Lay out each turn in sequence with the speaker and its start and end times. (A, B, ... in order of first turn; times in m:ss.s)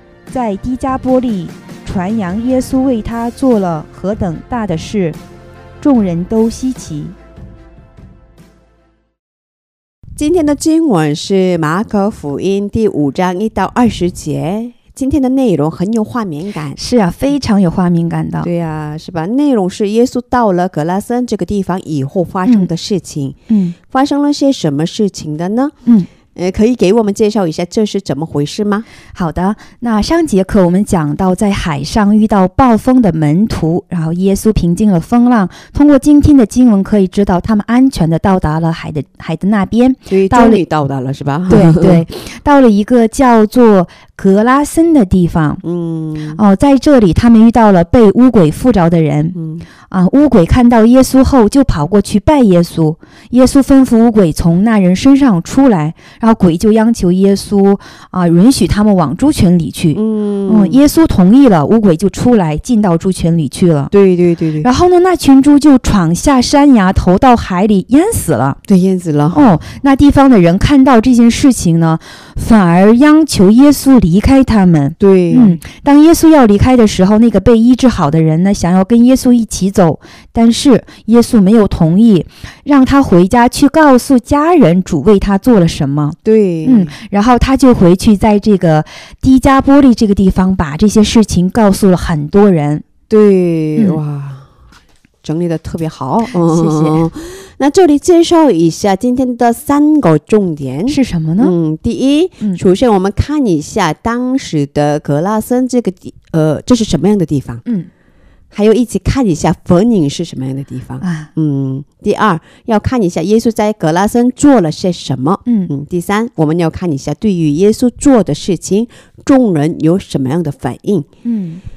0:00.3-0:05.2 A
0:05.8-0:07.2 A
0:10.2-0:16.8 B
0:16.8-0:18.5 A
0:18.4-0:25.8 B
0:22.4-0:22.7 A
0:23.5-0:23.8 A
0:26.3-0:28.9 B
0:29.2-0:40.6 A
0:40.1-0:42.0 B
0:41.5-0:45.6 A
0:45.6-0:46.4 B
0:46.3-0:49.4 A
0:49.4-0:49.7 B
0:49.9-1:03.9 A
0:59.9-1:00.8 B
1:03.9-1:04.7 B
1:04.6-1:08.6 A
1:08.7-1:09.5 B
1:09.3-1:32.9 A
1:15.0-1:15.6 B
1:26.2-1:26.9 B
1:33.1-1:34.5 B
1:35.2-1:47.6 B
1:36.3-1:37.1 A
1:40.9-1:41.6 A
1:48.5-2:01.1 B
1:51.0-1:51.3 A
1:55.5-1:55.7 A
2:01.2-2:01.6 A